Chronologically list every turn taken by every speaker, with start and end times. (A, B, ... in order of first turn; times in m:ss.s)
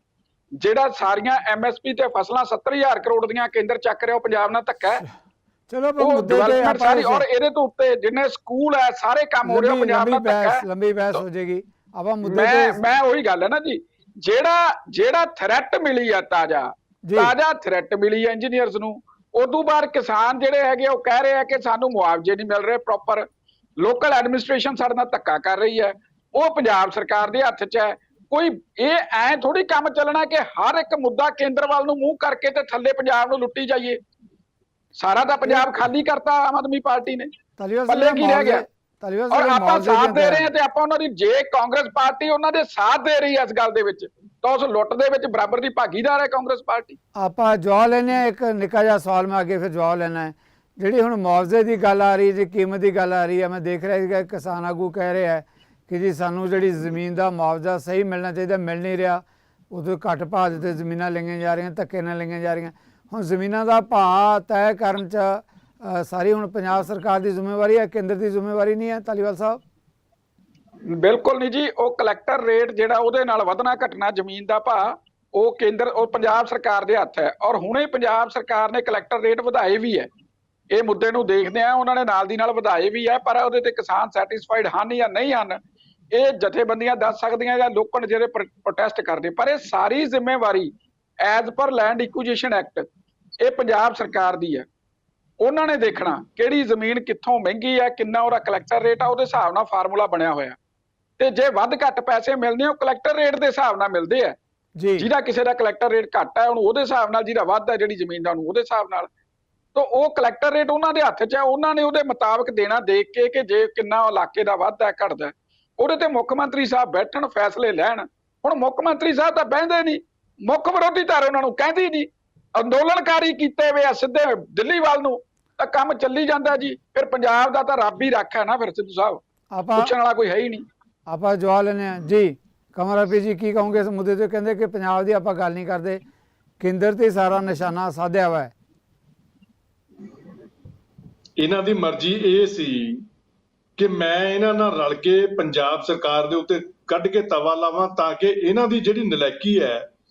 0:00.6-0:05.0 A
0:05.7-0:07.2 B
0:06.0-0:11.2 A
0:09.4-0:12.8 B
0:12.2-0:23.2 A
0:17.0-0:17.3 B
0:23.8-0:34.0 A
0:35.0-0:37.3 A
0:37.6-0:40.5 B
0:37.9-0:38.6 A
0:39.3-0:47.0 A
0:47.2-1:09.6 B
1:10.9-1:20.1 A
1:20.7-1:25.6 A
1:26.1-1:32.9 A
1:33.4-1:34.6 A
1:35.4-1:40.6 A
1:41.2-1:44.4 A
1:44.8-1:45.1 B
1:45.0-1:49.1 A
1:49.7-2:09.2 A
2:09.5-2:09.9 B
2:09.7-2:10.6 A
2:11.1-2:16.0 B
2:16.6-2:18.5 B
2:21.4-2:23.0 C
2:23.8-2:29.9 C